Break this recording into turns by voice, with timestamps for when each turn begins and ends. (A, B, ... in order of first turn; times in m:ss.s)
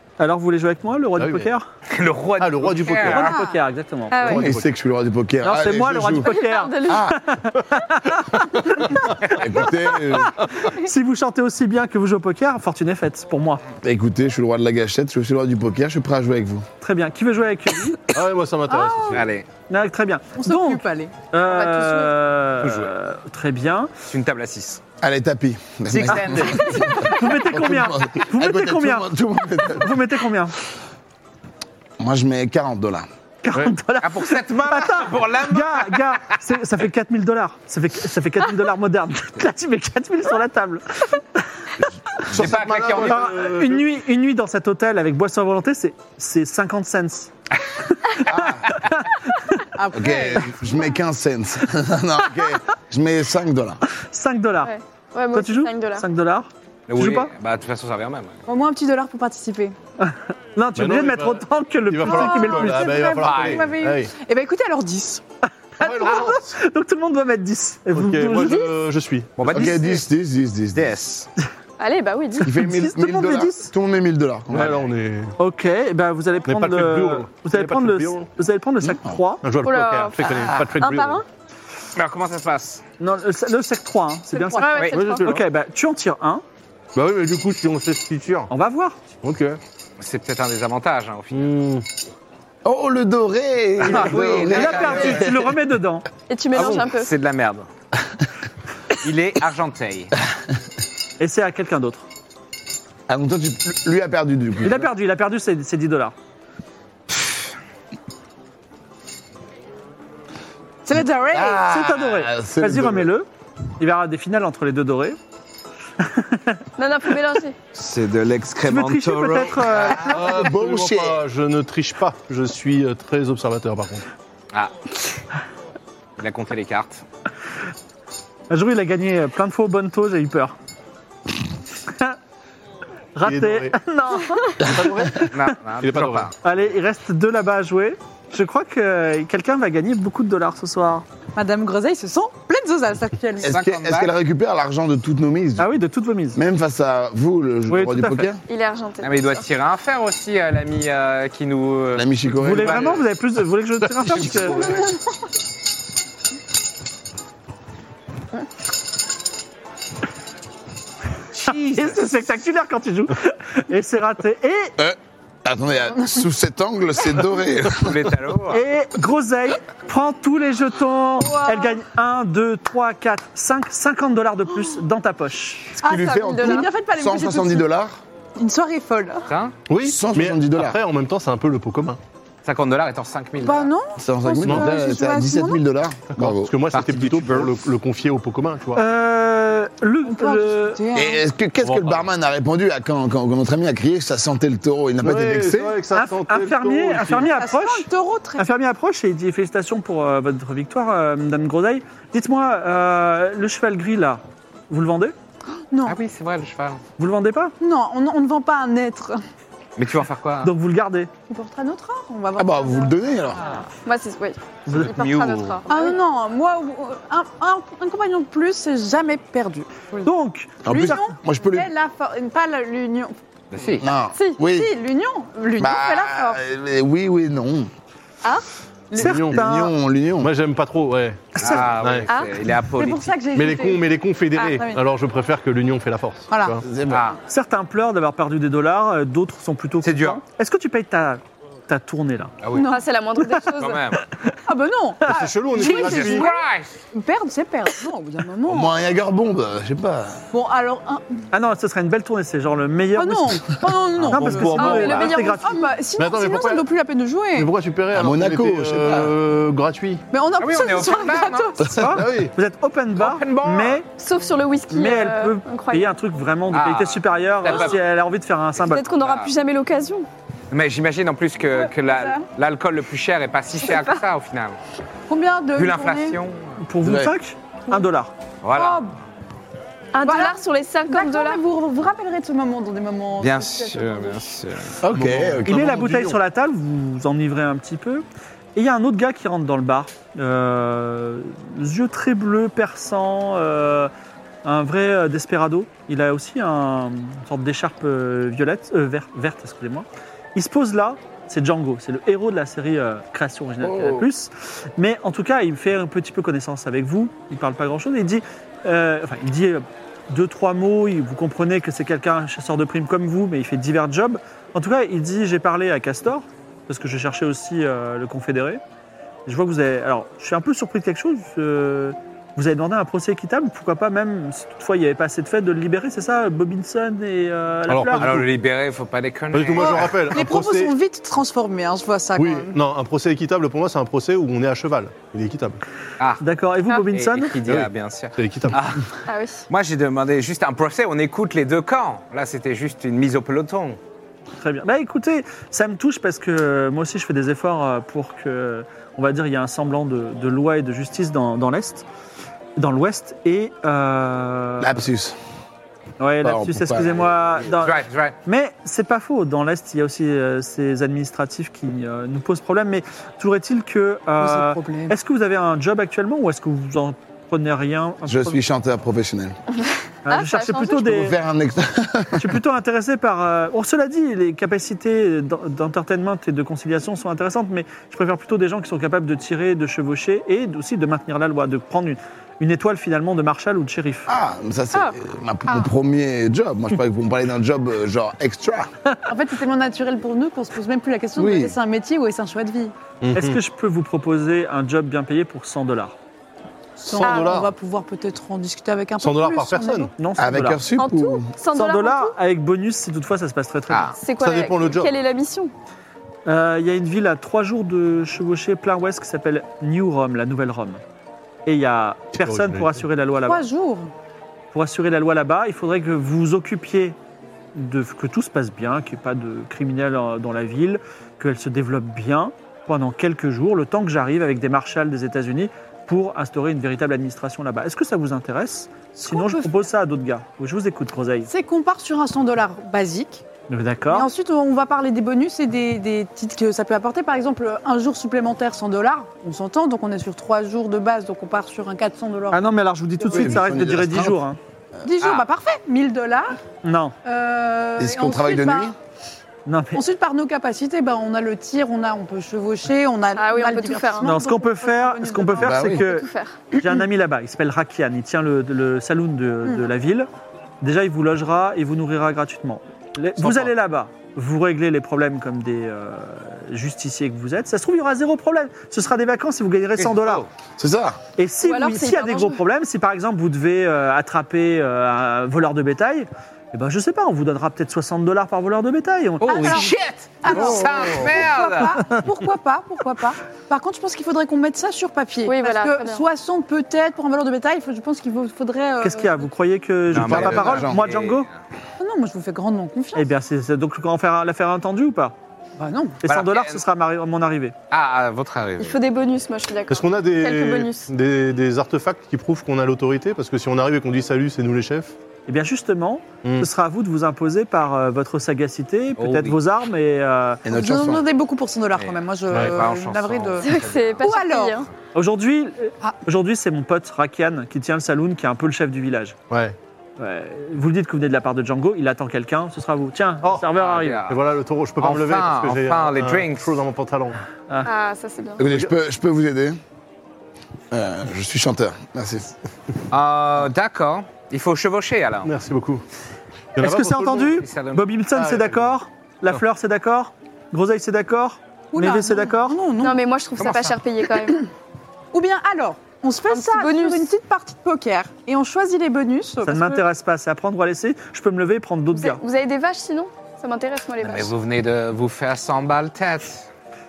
0:00.2-0:01.6 A
0:01.2-0:01.5 B
0:01.9-0:03.3 C
0:02.4-0:03.3 B
0:03.0-0:03.6 D
0:03.0-0:04.2 A
0:04.1-0:04.5 E
0:04.2-0:04.6 B
0:04.2-0:07.2 F
0:05.4-0:13.6 A
0:06.2-0:07.1 E
0:09.2-0:10.4 F
0:13.8-0:16.6 F
0:16.8-0:18.1 A
0:18.1-0:19.3 B
0:18.7-0:19.2 D
0:19.1-0:19.4 C
0:19.7-0:23.9 A
0:20.4-0:21.1 D
0:21.4-0:22.1 E
0:22.6-0:22.9 C
0:24.1-0:24.8 C
0:25.0-0:30.0 F
0:25.9-0:30.6 A
0:26.0-0:26.8 C
0:32.0-0:33.0 F
0:33.4-0:41.6 A
0:34.0-0:36.3 C
0:42.3-0:42.8 F
0:42.3-0:43.4 C
0:42.3-0:43.9 B
0:43.0-0:47.3 A
0:48.0-0:49.6 A
0:48.2-0:48.8 F
0:49.8-0:50.5 D
0:49.9-0:53.8 F
0:54.1-0:54.7 A
0:54.6-0:56.0 E
0:55.3-0:57.3 A
0:56.9-0:58.4 C
0:58.5-0:59.8 D
1:00.0-1:02.9 A
1:00.8-1:04.1 B
1:02.0-1:05.2 D
1:03.2-1:03.7 C
1:05.8-1:08.7 A
1:05.8-1:06.6 B
1:07.9-1:09.8 B
1:09.4-1:10.0 C
1:09.5-1:11.0 F
1:10.7-1:11.3 C
1:11.8-1:12.5 E
1:12.4-1:13.7 A
1:12.4-1:14.8 F
1:14.5-1:15.3 B
1:15.4-1:19.4 A
1:16.4-1:18.3 B
1:18.8-1:19.2 F
1:19.4-1:21.2 B
1:19.6-1:21.2 E
1:22.0-1:22.8 C
1:23.0-1:26.4 A
1:24.3-1:24.8 D
1:24.6-1:25.3 E
1:25.0-1:25.4 B
1:27.0-1:28.5 B
1:28.5-1:29.0 A
1:29.2-1:29.6 B
1:30.0-1:31.5 C
1:31.3-1:31.8 B
1:32.6-1:35.5 F
1:33.8-1:35.3 C
1:33.9-1:36.0 A
1:36.3-1:37.1 E
1:36.6-1:37.7 C
1:39.0-1:40.1 C
1:41.2-1:42.0 A
1:43.1-1:44.9 F
1:44.6-1:46.1 A
1:50.8-1:51.6 D
1:51.3-1:53.1 F
1:51.6-1:53.3 A
1:53.8-1:55.2 A
1:56.0-1:56.6 A
1:56.8-1:57.6 E
1:57.7-2:01.2 F
1:58.6-1:59.6 C
1:58.7-2:00.2 A
2:00.0-2:04.0 B
2:06.2-2:07.0 C
2:08.5-2:10.5 A
2:11.9-2:12.2 A
2:13.2-2:15.5 A
2:13.2-2:13.8 B
2:14.6-2:15.3 B
2:15.3-2:16.3 C
2:15.8-2:16.3 B
2:16.4-2:21.0 A
2:21.3-2:23.5 D
2:23.4-2:24.1 C
2:23.4-2:25.7 F
2:25.6-2:26.4 A
2:26.3-2:28.4 F
2:27.7-2:28.3 A
2:28.5-2:29.4 E
2:29.0-2:33.0 C
2:32.0-2:33.0 F
2:32.4-2:34.7 A
2:34.2-2:34.9 C
2:41.3-2:41.9 C
2:41.4-2:44.7 A
2:44.8-2:48.1 F
2:47.8-2:48.6 C
2:48.5-2:55.8 A
2:55.8-2:57.7 D
2:55.8-2:58.0 F
2:55.8-2:56.7 E
2:58.4-2:59.3 D
2:59.3-2:59.6 C
2:59.7-3:02.0 B
2:59.8-3:00.8 F
3:02.4-3:03.7 C
3:03.4-3:05.6 D
3:04.0-3:06.5 F
3:04.4-3:04.7 B
3:06.1-3:08.8 B
3:06.7-3:07.5 C
3:08.7-3:10.8 A
3:10.0-3:11.2 D
3:11.0-3:15.8 F
3:11.6-3:12.0 B
3:15.0-3:17.3 B
3:15.9-3:25.1 A
3:17.3-3:18.4 D
3:25.7-3:26.0 D
3:25.8-3:26.8 C
3:27.0-3:27.5 A
3:27.6-3:29.2 D
3:29.8-3:30.5 C
3:30.4-3:31.1 A
3:31.3-3:33.0 D
3:32.4-3:33.4 F
3:33.8-3:36.0 E
3:34.7-3:35.6 C
3:35.7-3:40.1 D
3:40.0-3:41.1 A
3:40.6-3:41.7 F
3:40.6-3:43.1 D
3:43.5-3:43.9 C
3:43.8-3:44.7 F
3:44.1-3:44.4 E
3:44.4-3:46.4 D
3:45.6-3:47.7 F
3:49.0-3:49.7 A
3:49.0-3:49.5 B
3:49.0-3:50.3 F
3:50.2-3:52.1 B
3:51.4-3:53.1 C
3:51.4-3:51.6 A
3:52.8-3:54.8 D
3:53.3-3:56.6 B
3:56.3-3:56.6 D
3:56.6-3:57.0 F
3:56.9-3:57.2 C
3:57.3-4:02.3 A
3:59.8-4:00.2 C
4:02.4-4:02.7 C
4:02.5-4:02.8 D
4:02.6-4:03.9 E
4:03.6-4:04.0 C
4:04.4-4:08.7 D
4:05.0-4:06.3 B
4:05.6-4:06.8 C
4:08.5-4:10.2 F
4:10.3-4:11.2 D
4:11.3-4:13.6 A
4:12.9-4:17.5 D
4:14.0-4:15.2 B
4:14.1-4:15.7 A
4:14.6-4:15.4 E
4:16.0-4:16.7 B
4:17.3-4:20.0 B
4:17.9-4:19.1 F
4:20.1-4:21.8 D
4:20.4-4:21.6 C
4:21.6-4:23.9 A
4:21.8-4:22.3 B
4:23.0-4:23.8 C
4:23.9-4:25.9 E
4:24.7-4:28.8 A
4:26.5-4:27.8 C
4:28.6-4:30.1 E
4:28.9-4:29.3 C
4:30.5-4:34.6 C
4:31.5-4:32.2 D
4:35.1-4:36.2 D
4:35.6-4:36.6 C
4:36.6-4:38.1 A
4:36.8-4:37.1 F
4:38.4-4:38.9 C
4:38.5-4:39.0 D
4:39.9-4:41.4 E
4:40.0-4:44.3 D
4:43.2-4:44.8 C
4:44.8-4:45.6 F
4:44.9-4:46.2 B
4:45.5-4:48.0 A
4:48.6-4:53.9 A
4:54.4-5:18.6 A
5:03.6-5:04.1 F
5:19.3-5:28.1 A
5:27.7-5:28.3 B
5:28.0-5:30.0 C
5:29.3-5:30.7 B
5:29.6-5:32.6 D
5:32.2-5:35.6 B
5:36.2-5:37.4 A
5:36.9-5:38.8 C
5:37.4-5:38.6 B
5:39.1-5:39.4 E
5:39.5-5:43.8 C
5:44.4-5:51.9 A
5:52.6-5:54.9 A
5:54.6-5:55.2 F
5:56.0-6:08.4 A
5:56.2-5:57.3 F
5:57.6-5:58.2 C
6:04.2-6:05.0 D
6:08.0-6:09.4 F
6:10.0-6:11.2 A
6:10.1-6:11.0 E
6:10.8-6:12.4 F
6:12.2-6:24.1 A
6:24.1-6:28.7 F
6:29.1-6:32.7 D
6:31.2-6:31.6 F
6:33.0-6:33.4 B
6:33.1-6:36.0 A
6:36.8-6:37.5 B
6:36.8-6:39.9 D
6:37.0-6:37.4 E
6:39.0-6:39.9 B
6:40.0-6:40.6 A
6:40.2-6:41.3 F
6:40.8-6:42.1 E
6:41.5-6:44.0 A
6:43.7-6:44.0 C
6:44.0-6:45.5 E
6:44.2-6:45.0 B
6:46.3-6:50.8 A
6:51.4-6:53.4 A
6:52.2-6:52.8 B
6:53.2-6:53.9 D
6:54.5-6:57.0 A
6:57.6-7:11.3 A
7:09.1-7:09.5 D
7:11.3-7:13.2 D
7:13.5-7:14.1 A
7:13.9-7:22.5 D
7:22.3-7:24.4 A
7:23.0-7:23.5 D
7:23.1-7:24.2 F
7:24.8-7:26.4 D
7:25.0-7:25.3 C
7:26.6-7:27.0 A
7:27.0-7:28.7 D
7:27.8-7:28.7 F
7:29.4-7:29.8 A
7:29.7-7:35.9 D
7:33.1-7:34.1 E
7:34.0-7:36.1 A
7:35.4-7:35.8 F
7:35.8-7:36.4 E
7:36.6-7:40.1 A
7:40.6-7:50.2 A
7:43.2-7:43.5 B
7:49.8-7:50.3 C
7:50.6-7:51.0 F
7:51.2-7:59.7 A
7:51.4-7:52.4 E
7:59.2-8:01.8 C
7:59.3-8:09.3 D
8:00.3-8:01.3 F
8:05.2-8:06.0 E
8:08.8-8:11.3 A
8:09.9-8:10.7 B
8:09.9-8:11.3 C
8:10.2-8:10.8 F
8:11.8-8:13.1 D
8:13.0-8:15.1 A
8:15.6-8:16.0 D
8:16.0-8:17.6 A
8:16.1-8:16.6 C
8:17.7-8:18.8 C
8:18.6-8:20.9 E
8:19.7-8:25.0 B
8:25.3-8:30.4 A
8:26.2-8:26.5 B
8:29.0-8:29.4 C
8:30.4-8:31.0 F
8:30.5-8:34.6 D
8:31.8-8:34.1 C
8:32.3-8:32.6 B
8:33.4-8:34.7 E
8:35.0-8:39.2 A
8:39.3-8:39.6 B
8:40.0-8:44.0 A
8:43.2-8:43.5 B
8:43.6-8:44.2 C
8:44.1-8:47.2 B
8:44.8-8:46.6 C
8:47.6-8:48.4 E
8:48.4-8:49.6 F
8:50.7-8:52.3 F
8:52.9-8:55.3 C
8:55.2-8:55.8 B
8:56.6-8:57.4 B
8:56.6-9:02.6 A
8:57.3-8:57.9 C
8:58.1-8:58.7 B
9:01.7-9:03.4 D
9:02.8-9:04.5 E
9:03.4-9:03.7 C
9:05.1-9:09.8 D
9:06.3-9:07.1 E
9:09.4-9:12.2 A
9:12.0-9:14.3 E
9:14.0-9:16.5 C